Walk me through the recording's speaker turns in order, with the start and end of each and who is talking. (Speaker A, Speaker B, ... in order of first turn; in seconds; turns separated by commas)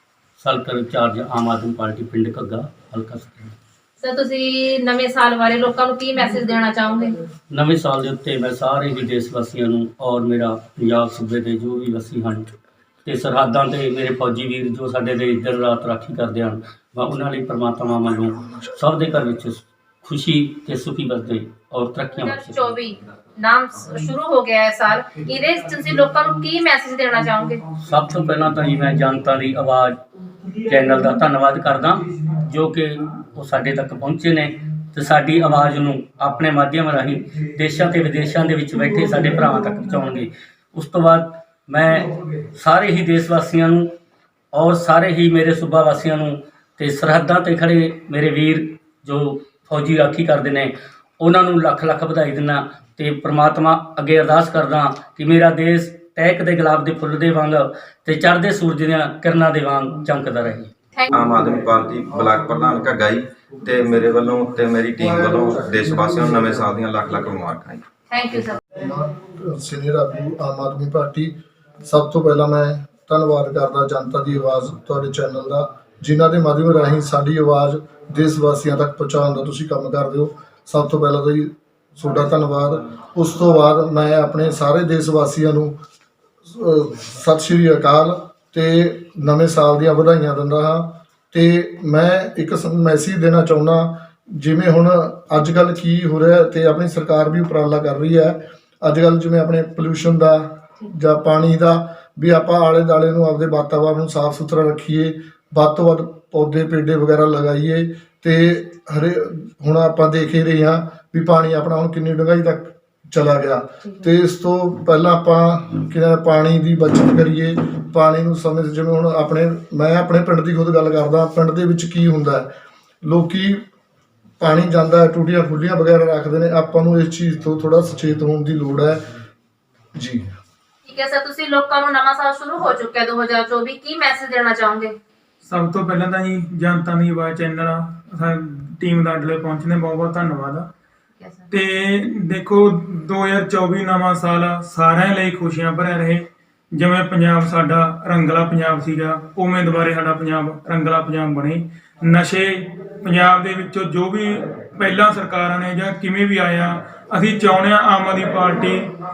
Speaker A: 0.4-3.5, Speaker B: 4.0-7.2, Speaker A: 7.5-12.5, Speaker A: 13.1-22.7, Speaker B: 22.1-27.6, Speaker A: 27.8-30.0, Speaker A: 30.6-43.9, Speaker A: 44.5-60.7, Speaker C: 61.1-67.8, Speaker B: 68.1-68.6, Speaker D: 68.7-85.8, Speaker D: 86.5-122.5, Speaker D: 123.0-123.6, Speaker D: 124.4-129.1, Speaker D: 130.0-130.3, Speaker B: 130.8-134.9, Speaker E: 135.4-140.7, Speaker B: 141.2-141.5, Speaker E: 141.5-158.9